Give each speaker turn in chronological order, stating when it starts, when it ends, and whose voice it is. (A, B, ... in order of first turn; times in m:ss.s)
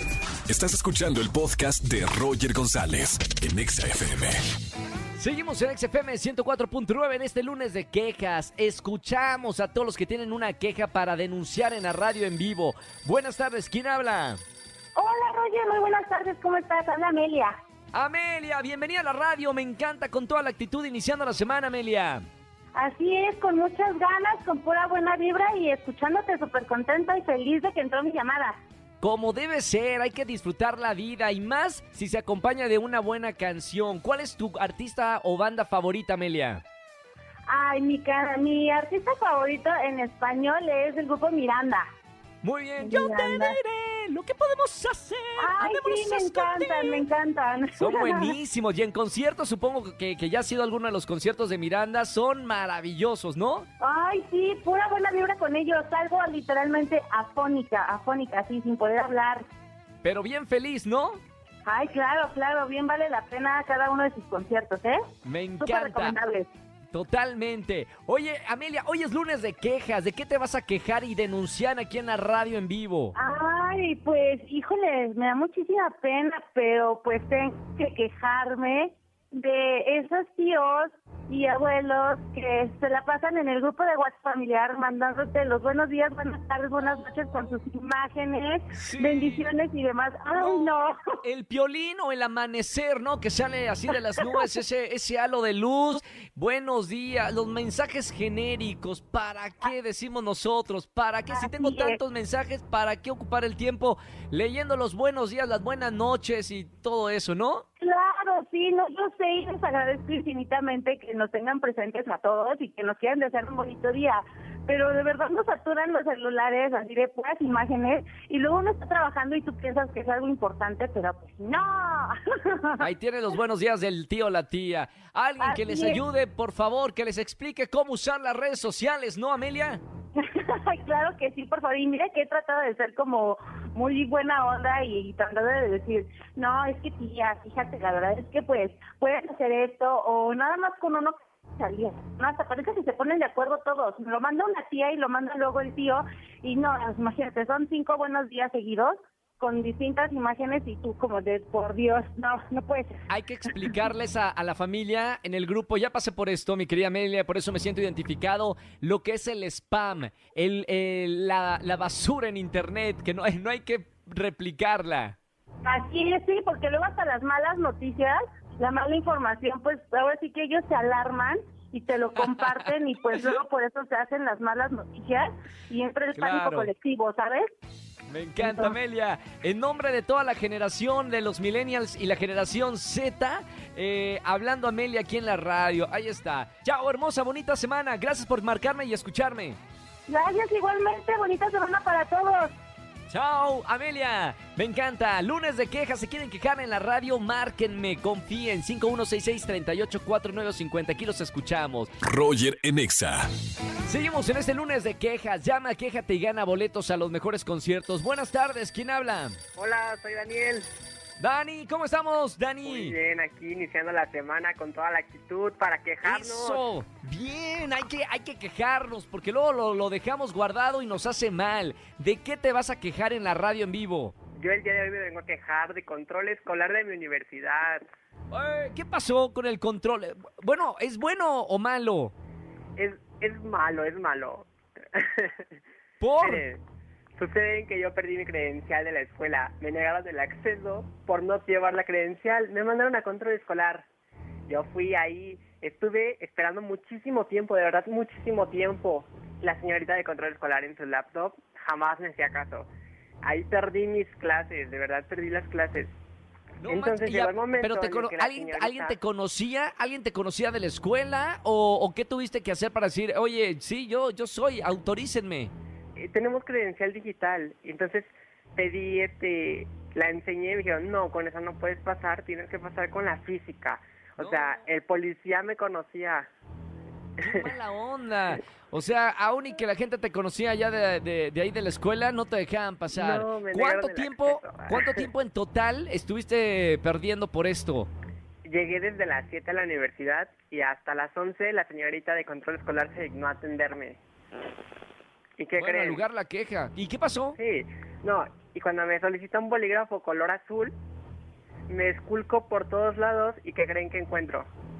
0:00.5-0:04.4 A
0:05.2-0:14.4 B
0:14.9-0:17.5 C
0:17.9-0:22.2 B
0:22.7-0:28.6 C
0:29.0-0:36.6 B
0:37.5-0:41.9 C
0:42.4-0:47.0 B
0:42.8-0:43.6 C
0:45.4-0:48.3 C
0:47.8-0:53.7 B
0:53.8-0:59.4 C
1:00.0-1:01.2 B
1:01.6-1:05.0 C
1:05.2-1:06.2 B
1:05.6-1:06.5 C
1:06.9-1:13.1 B
1:13.2-1:31.0 C
1:28.7-1:29.5 B
1:30.3-1:47.6 B
1:41.3-1:42.0 C
1:47.8-2:02.9 C
2:02.8-2:09.8 B
2:05.4-2:06.0 C
2:10.1-2:33.0 C
2:33.1-2:45.1 B
2:45.6-2:57.5 C
2:52.2-2:53.3 B
2:56.1-2:56.7 B
2:58.1-3:09.6 B
2:58.4-2:58.8 C
3:10.1-3:12.5 C
3:13.1-3:22.0 B
3:22.0-3:23.3 A
3:23.8-3:29.4 B
3:29.6-3:30.7 D
3:31.2-3:32.9 B
3:32.6-3:36.6 D
3:36.0-3:44.1 B
3:44.4-3:47.8 D
3:48.3-3:52.1 B
3:52.8-3:55.4 D
3:56.0-3:56.4 B
3:56.2-3:56.6 D
3:57.2-4:03.8 D
4:04.5-4:12.7 D
4:13.2-4:15.9 D
4:16.6-4:25.5 B
4:16.7-4:19.0 D
4:26.0-4:36.3 D
4:34.2-4:34.6 B
4:37.2-4:47.9 B
4:42.9-4:45.0 D
4:48.4-4:54.0 D
4:55.4-4:56.0 D
4:55.6-4:57.4 B
4:57.4-5:00.7 D
5:01.7-5:04.5 D